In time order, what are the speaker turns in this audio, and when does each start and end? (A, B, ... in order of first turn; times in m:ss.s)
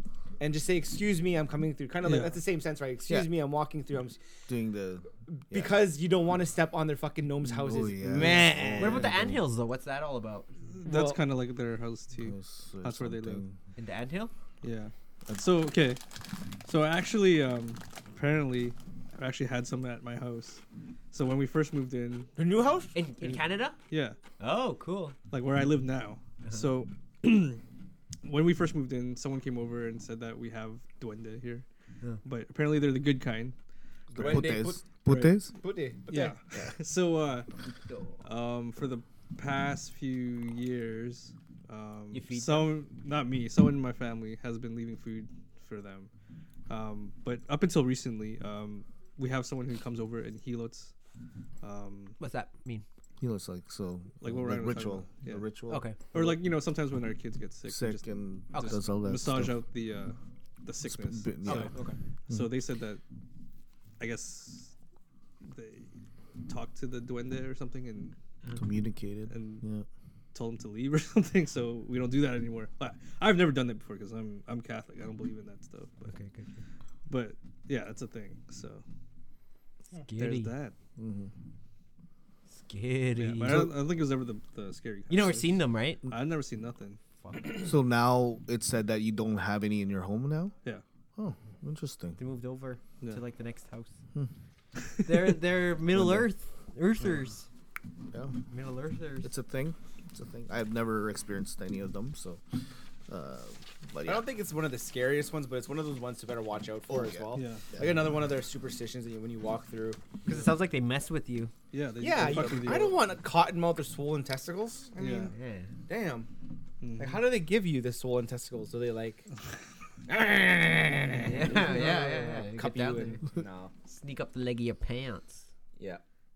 0:00.4-0:04.2 A
0:02.0-0:02.4 B
0:04.5-0:05.8 C
0:05.3-0:09.0 A
0:07.4-0:09.5 C
0:08.8-0:10.6 D
0:10.7-0:13.4 B
0:10.8-0:11.2 A
0:12.2-0:13.6 C
0:13.8-0:14.3 D
0:14.6-0:16.0 B
0:16.6-0:22.3 B
0:22.4-0:23.0 A
0:22.9-0:23.8 D
0:23.2-0:24.2 B
0:24.4-0:25.2 D
0:25.3-0:27.6 B
0:26.4-0:26.7 D
0:28.2-0:31.6 B
0:32.2-0:33.6 B
0:34.1-0:35.5 C
0:34.1-0:34.8 A
0:34.1-0:34.5 B
0:35.0-0:35.4 B
0:35.5-0:36.4 A
0:36.1-0:37.5 B
0:37.8-0:38.2 D
0:38.2-0:46.1 B
0:42.1-0:42.7 D
0:46.7-0:50.9 B
0:51.6-0:52.2 B
0:52.2-0:52.8 D
0:53.2-0:56.4 C
0:54.2-0:55.4 B
0:55.7-0:56.0 D
0:56.1-1:01.7 B
0:57.6-0:59.6 C
0:58.5-0:58.8 D
1:00.8-1:01.7 C
1:01.5-1:02.0 D
1:02.3-1:03.0 B
1:04.0-1:04.7 B
1:05.4-1:05.9 B
1:06.5-1:08.1 B
1:08.5-1:09.8 C
1:09.3-1:09.6 B
1:10.3-1:16.1 B
1:16.0-1:16.6 D
1:17.1-1:18.8 B
1:19.9-1:20.6 D
1:20.2-1:20.7 B
1:21.0-1:21.3 C
1:22.5-1:23.7 D
1:23.2-1:27.0 B
1:25.1-1:26.0 D
1:27.2-1:27.6 D
1:27.5-1:30.5 C
1:31.2-1:32.2 C
1:32.2-1:33.9 D
1:35.0-1:37.5 D
1:35.9-1:36.3 C
1:38.1-1:38.4 C
1:38.5-1:39.3 D
1:39.2-1:42.4 C
1:43.1-1:44.3 C
1:44.0-1:50.1 A
1:46.9-1:48.1 C
1:47.3-1:47.6 B
1:50.2-1:51.5 D
1:51.7-1:53.0 B
1:52.0-1:55.3 A
1:52.2-1:52.9 C
1:55.0-1:55.3 B
1:55.3-1:55.7 D
1:55.8-1:56.3 A
1:56.8-1:57.2 B
1:57.0-1:59.2 A
2:00.1-2:03.7 A
2:01.2-2:03.2 D
2:03.8-2:05.5 D
2:05.8-2:06.0 A